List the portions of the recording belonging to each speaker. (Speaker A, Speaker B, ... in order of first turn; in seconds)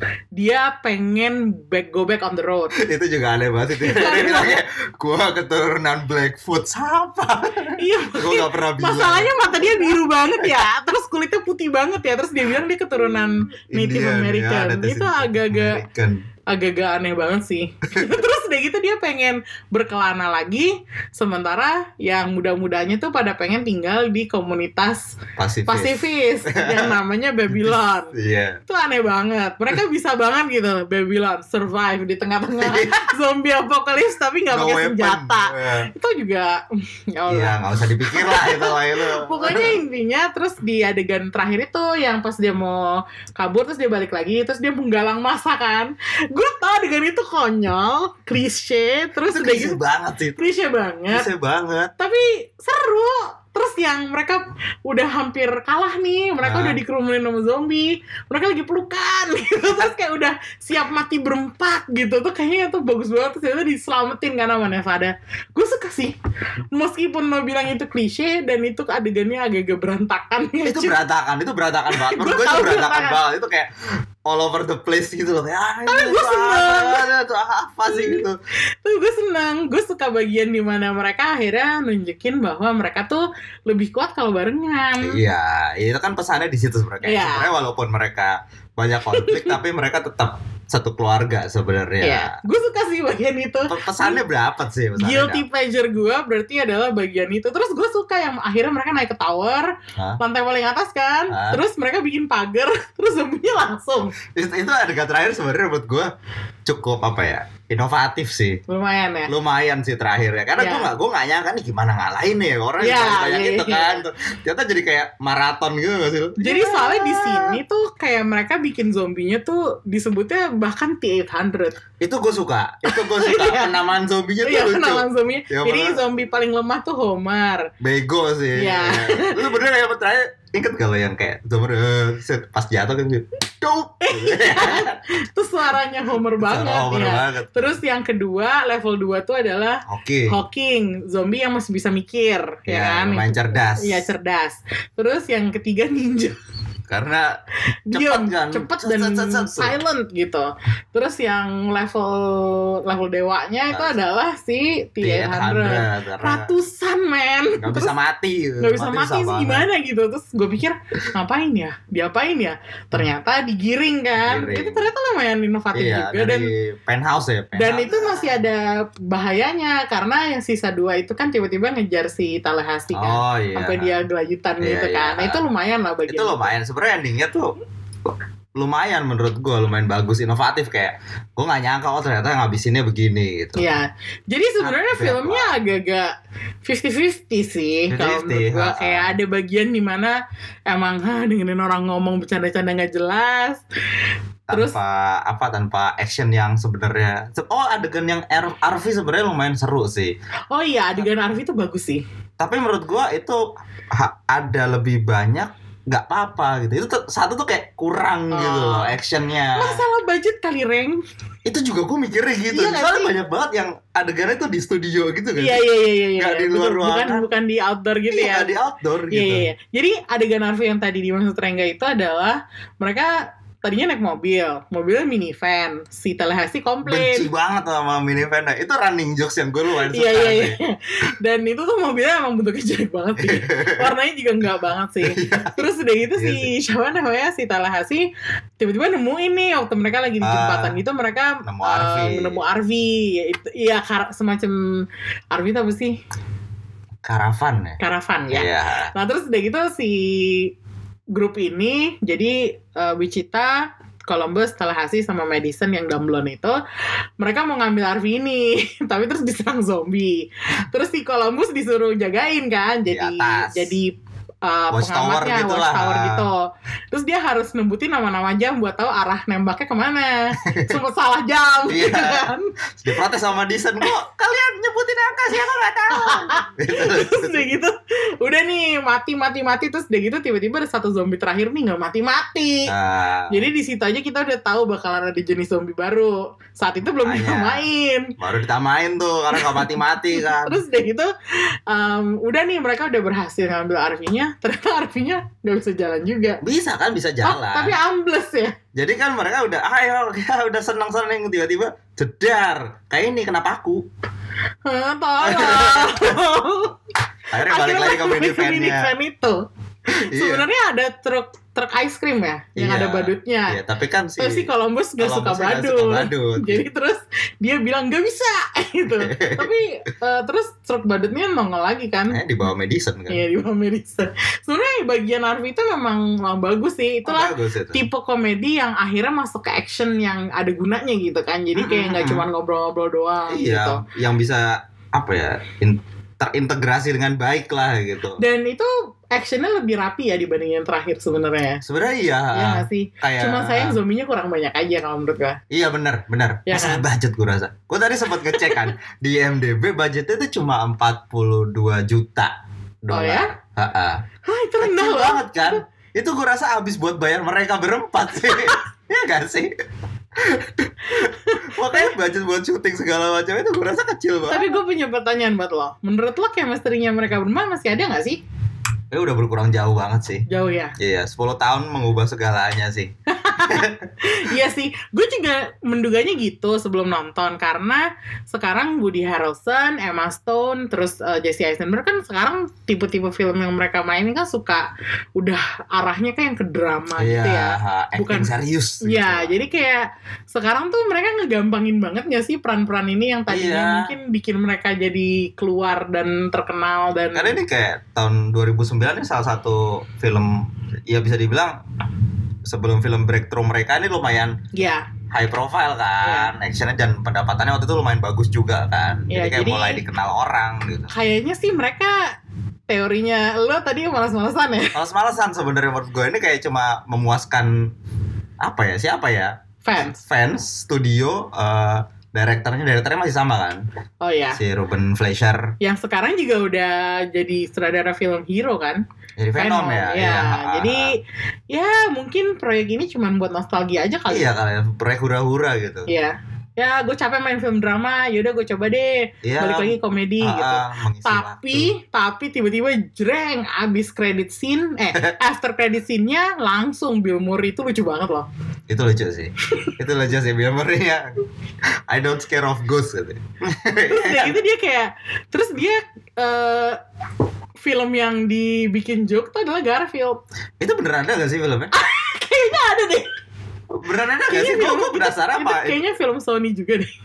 Speaker A: 0.4-2.8, 3.8-4.6, 7.8-15.8, 16.5-25.1, 25.7-28.1, 28.7-49.8, 50.4-51.3, 52.0-66.2, 66.7-71.0, 71.9-73.2, 75.9-77.1, 77.9-78.3, 78.8-85.2, 87.0-87.5, 89.1-89.6, 92.0-94.2, 95.0-104.2, 108.7-109.3, 110.6-110.9, 112.8-114.0, 116.4-121.8, 122.9-123.8, 124.4-127.7, 128.6-129.5, 134.0-146.4, 147.9-157.9, 158.6-166.5, 167.6-176.5, 183.6-186.1, 186.7-190.2, 190.7-193.6, 194.5-194.8, 200.5-202.0, 208.3-209.0, 209.6-211.0, 212.5-213.1, 215.4-218.5, 219.1-227.3, 229.9-246.0, 247.8-250.5, 251.1-256.6, 257.2-272.5, 275.9-282.7, 283.3-288.1, 289.3-291.1, 291.7-296.4, 297.2-298.6, 304.7-306.8, 307.4-313.6, 314.2-322.2, 323.1-333.8, 338.2-341.6, 342.3-345.4, 346.5-346.9, 348.3-348.7, 352.9-353.4, 354.3-355.6, 360.9-361.9, 364.3-368.2, 370.3-370.8, 373.1-397.4, 404.5-404.9, 406.0-406.3, 409.1-409.8, 410.9-412.1, 412.7-414.8, 419.6-420.0, 424.0-424.4, 425.6-428.8, 429.4-434.3, 435.9-448.3, 453.9-456.8, 457.6-460.2, 461.7-463.1, 464.3-466.9
Speaker B: 2.8-10.6, 13.7-16.2, 25.4-27.0, 27.5-28.6, 32.6-33.1, 34.5-35.9, 37.3-39.8, 49.2-50.5, 51.1-51.9, 56.4-56.8, 70.7-73.7, 74.3-78.4, 85.0-92.4, 93.7-95.4, 101.3-101.6, 104.3-106.1, 106.7-108.6, 109.3-117.6, 122.0-126.0, 127.8-135.0, 136.4-137.8, 139.9-140.4, 142.7-144.1, 146.9-147.4, 147.9-149.8, 153.7-154.0, 155.0-156.5, 157.6-159.7, 164.2-164.9, 165.7-168.4, 172.9-174.0, 174.6-175.4, 176.1-177.5, 178.1-183.6, 184.6-185.6, 187.9-189.1, 194.5-200.2, 202.4-209.8, 211.4-215.6, 216.2-217.3, 218.1-219.5, 226.8-230.6, 233.2-233.9, 235.0-235.7, 236.2-236.5, 240.2-240.8, 241.5-242.4, 247.0-247.8, 248.3-248.9, 262.9-263.8, 264.7-266.3, 270.4-270.8, 271.7-277.5, 282.7-283.5, 287.0-287.7, 288.2-290.6, 296.4-297.8, 298.8-303.9, 305.2-306.2, 307.3-308.9, 310.0-310.5, 312.6-316.7, 318.9-319.5, 322.1-323.2, 327.1-327.8, 331.6-332.3, 333.3-338.2, 341.6-343.8, 345.5-352.3, 352.8-354.0, 354.6-359.5, 360.1-364.5, 368.9-370.2, 370.8-372.9, 373.4-373.8, 387.0-389.5, 393.3-393.9, 397.1-401.6, 402.4-404.4, 405.1-410.9, 414.7-417.7, 418.4-423.6, 424.3-425.5, 429.2-430.9, 434.1-435.9, 439.2-441.7, 448.7-451.1, 451.9-454.4, 460.6-461.7, 463.7-465.8